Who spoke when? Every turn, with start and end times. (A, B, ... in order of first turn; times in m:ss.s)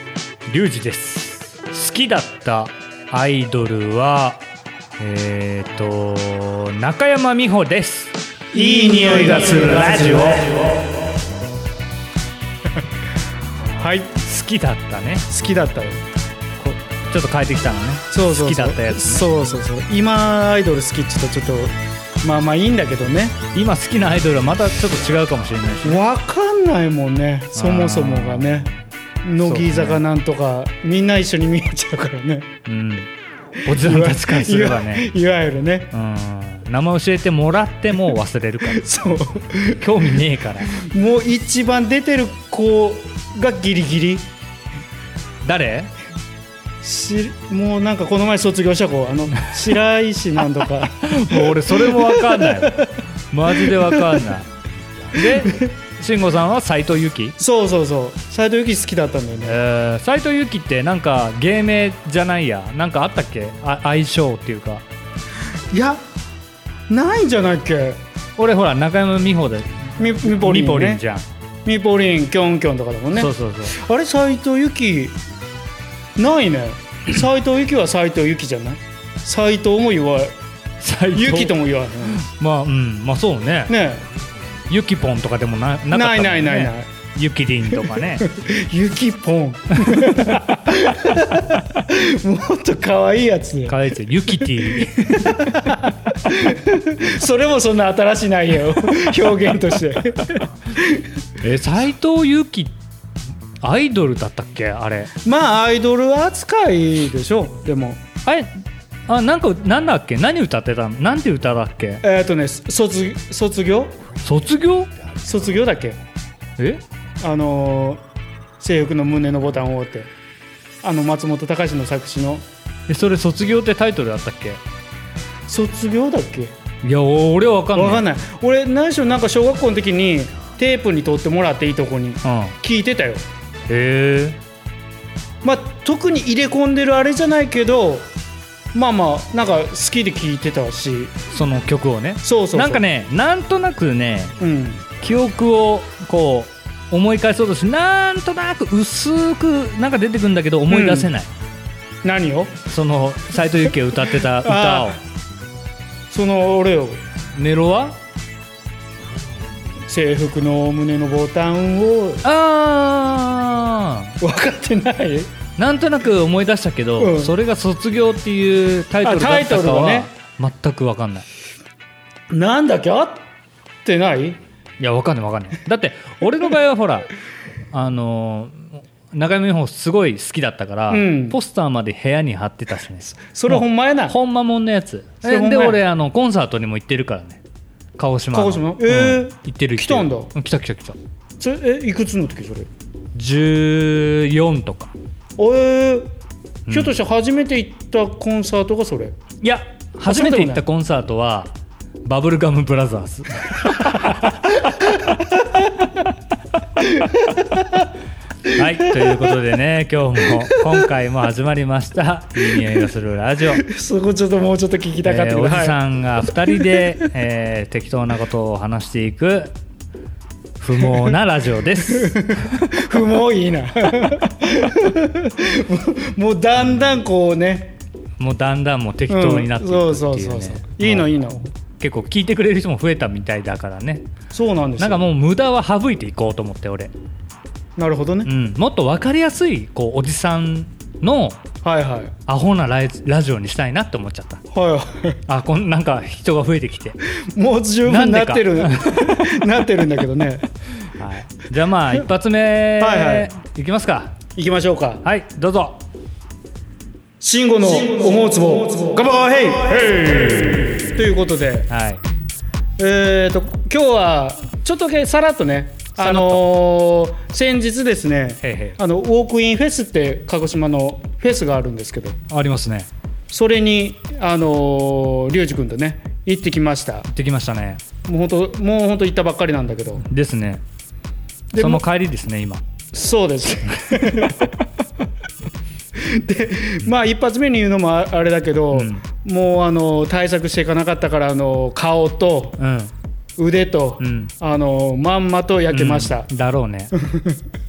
0:00.5-0:04.4 A
0:05.0-0:10.8 A
0:08.5-0:10.6 B
0:13.8-0:14.2 B
0:14.2-0:15.3 A
0:15.3-0:16.0 B
0:16.6-0:19.3 A
0:18.1-0:23.4 B
0:23.5-0:26.0 A
0:25.8-0:28.7 B
0:27.6-0:28.7 A
0:29.2-0:32.5 B
0:29.4-0:30.0 A
0:32.7-0:33.1 A
0:33.6-0:35.1 A
0:33.7-0:35.9 B
0:35.9-0:38.9 A
0:38.7-0:39.9 B
0:39.8-0:40.7 A
0:40.7-0:44.3 B
0:45.4-0:45.9 A
0:46.8-0:53.0 B
0:51.0-0:54.5 A
0:53.6-0:54.2 B
0:55.0-0:57.4 A
0:57.4-0:59.6 B
0:59.4-1:04.8 A
1:05.7-1:06.0 B
1:06.9-1:08.0 B
1:08.4-1:11.3 A
1:10.0-1:11.0 B
1:11.7-1:15.2 B
1:13.2-1:13.7 A
1:16.2-1:20.3 B
1:20.8-1:23.8 A
1:21.1-1:22.3 B
1:23.7-1:24.0 B
1:24.7-1:28.3 A
1:25.9-1:26.9 B
1:28.2-1:33.8 B
1:29.8-1:30.4 A
1:33.7-1:35.7 A
1:34.4-1:41.1 B
1:41.4-1:42.7 A
1:43.6-1:45.1 A
1:45.2-1:48.0 B
1:48.2-1:48.5 A
1:49.1-1:52.0 A
1:52.0-1:54.0 B
1:54.2-1:54.9 A
1:55.2-1:56.0 B
1:56.6-1:56.8 A
1:57.2-1:58.0 B
1:58.6-2:00.1 B
2:00.8-2:02.4 B
2:02.9-2:04.6 A
2:05.5-2:06.5 B
2:06.8-2:08.0 A
2:07.7-2:13.2 B
2:12.2-2:12.6 A
2:13.7-2:14.4 A
2:15.4-2:18.1 B
2:18.7-2:21.2 B
2:21.3-2:24.4 A
2:22.2-2:22.8 B
2:24.4-2:24.9 B
2:25.0-2:31.3 A
2:30.7-2:31.1 B
2:32.0-2:32.6 B
2:32.7-2:35.0 A
2:34.3-2:35.0 B
2:36.1-2:37.0 B
2:37.4-2:38.0 A
2:39.9-2:42.2 B
2:42.2-2:44.2 A
2:44.2-2:45.3 B
2:45.6-2:51.3 A
2:47.0-2:47.3 B
2:49.0-2:50.1 B
2:52.3-2:53.2 B
2:53.8-2:54.4 B
2:54.8-2:57.1 A
2:57.7-3:07.4 A
3:00.9-3:01.4 B
3:03.2-3:04.2 B
3:05.2-3:05.8 B
3:08.0-3:11.0 A
3:08.3-3:10.3 B
3:11.4-3:12.7 B
3:13.1-3:14.9 A
3:15.4-3:16.1 B
3:16.7-3:17.0 A
3:16.7-3:19.2 B
3:19.4-3:21.5 A
3:20.1-3:20.6 B
3:22.0-3:25.1 A
3:24.1-3:25.7 B
3:26.8-3:27.9 B
3:28.5-3:29.4 B
3:28.5-3:33.6 A
3:30.5-3:30.8 B
3:33.5-3:35.8 B
3:35.0-3:39.5 A
3:36.5-3:36.7 B
3:40.6-3:42.7 A
3:41.9-3:47.8 B
3:48.2-3:51.2 A
3:49.1-3:51.4 B
3:51.8-3:54.1 A
3:54.3-3:55.1 B
3:54.8-3:56.9 A
3:57.8-3:58.3 B
3:58.2-4:01.4 A
4:01.6-4:02.1 B
4:02.3-4:04.4 A
4:04.5-4:05.2 B
4:05.3-4:07.0 A
4:07.1-4:10.4 B
4:07.9-4:09.5 A
4:10.9-4:14.1 A
4:12.8-4:13.3 B
4:14.4-4:15.0 B
4:15.0-4:15.8 A
4:17.2-4:21.7 B
4:21.7-4:22.0 A
4:22.8-4:32.2 B
4:26.0-4:26.4 A
4:28.4-4:28.8 A
4:32.3-4:32.9 A
4:33.3-4:37.1 B
4:37.1-4:37.8 A
4:38.0-4:40.0 B
4:40.0-4:40.6 A
4:41.5-4:41.8 B
4:41.6-4:42.6 A
4:42.9-4:44.5 B
4:43.8-4:44.4 A
4:46.0-4:52.6 B
4:48.7-4:49.0 A
4:52.6-4:52.9 A
4:53.4-4:56.3 B
4:54.0-4:54.3 A
4:55.7-4:56.9 A
4:57.0-4:57.4 B